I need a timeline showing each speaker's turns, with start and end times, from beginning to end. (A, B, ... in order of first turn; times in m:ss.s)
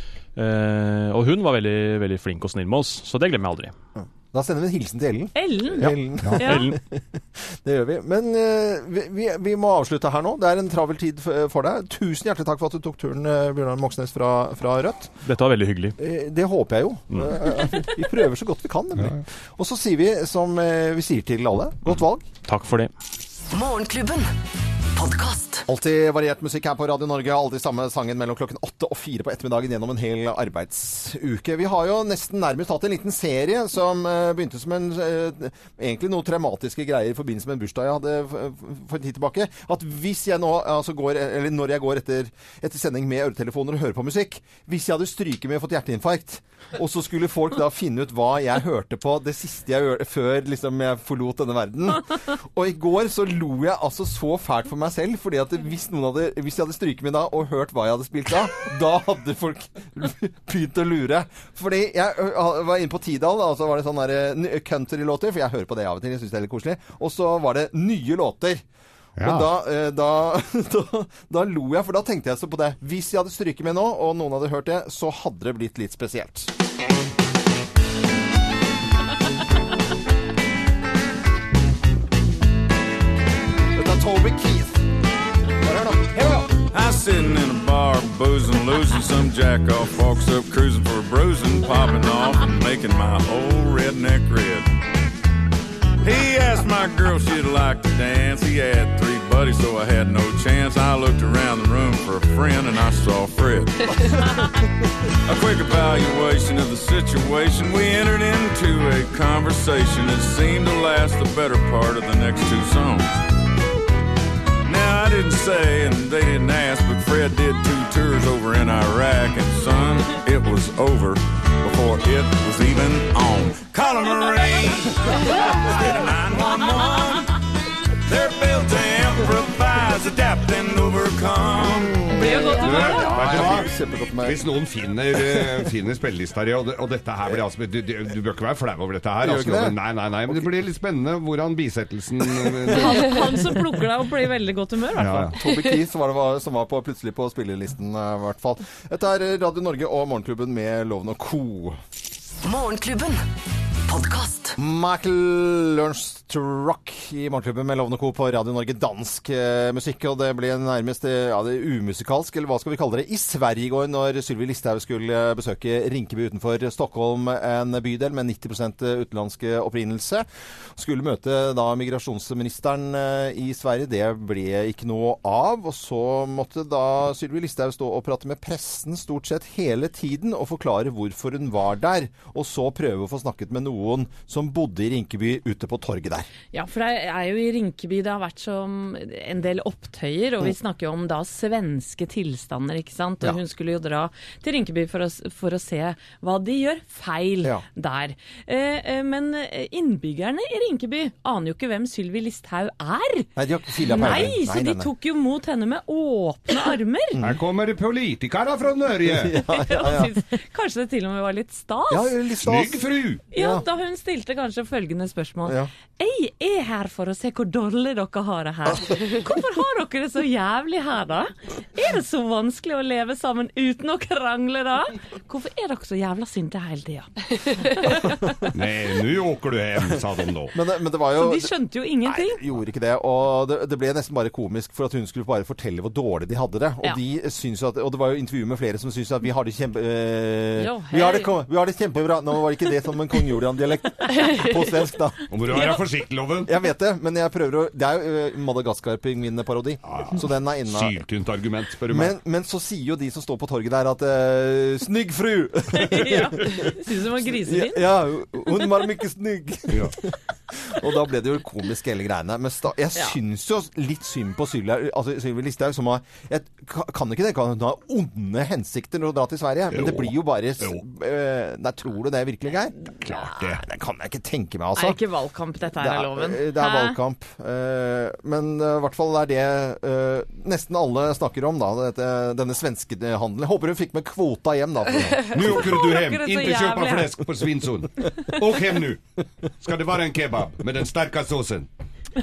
0:00.4-0:03.7 A
0:04.3-0:15.1 B
0:05.3-0:06.7 C
0:05.8-0:06.8 A
0:15.2-0:16.0 A
0:16.0-0:22.2 B
0:22.4-0:22.9 A
0:23.5-0:24.3 D
0:25.0-0:25.6 D
0:25.7-1:08.6 B
1:09.2-1:09.5 E
1:09.2-1:16.5 B
1:23.7-1:24.8 B
1:25.6-1:26.5 B
1:26.6-1:34.7 F
1:36.0-1:44.2 F
1:45.3-1:53.2 F
1:54.6-2:07.3 F
2:08.0-2:11.9 F
2:11.6-2:14.4 B
2:12.0-2:13.2 C
2:12.6-2:13.7 E
2:14.2-2:23.1 E
2:19.2-2:20.5 B
2:22.7-2:25.3 C
2:24.9-2:25.3 E
2:25.1-2:31.8 B
2:32.4-2:33.2 D
2:33.9-2:34.5 D
2:34.6-3:06.3 B
3:06.5-3:27.2 C
3:23.4-3:24.9 B
3:27.2-3:29.4 E
3:29.0-3:30.1 B
3:29.4-3:32.2 C
3:31.9-3:33.6 B
3:32.4-3:33.2 E
3:33.3-3:47.1 C
3:47.6-3:48.1 C
3:48.5-3:50.5 E
3:50.5-3:51.5 B
3:51.1-3:52.4 C
3:52.0-4:05.8 B
4:00.6-4:01.4 C
4:05.3-4:06.5 E
4:06.4-4:11.0 B
4:09.9-4:12.2 E
4:11.9-4:16.7 B
4:15.7-4:17.9 C
4:17.3-4:32.8 B
4:19.7-4:19.9 E
4:29.7-4:30.8 E
4:33.0-4:33.6 E
4:33.5-4:35.0 B
4:34.8-4:37.0 C
4:35.8-4:45.6 B
4:45.3-4:49.0 E
4:45.5-4:47.2 C
4:49.5-4:51.7 E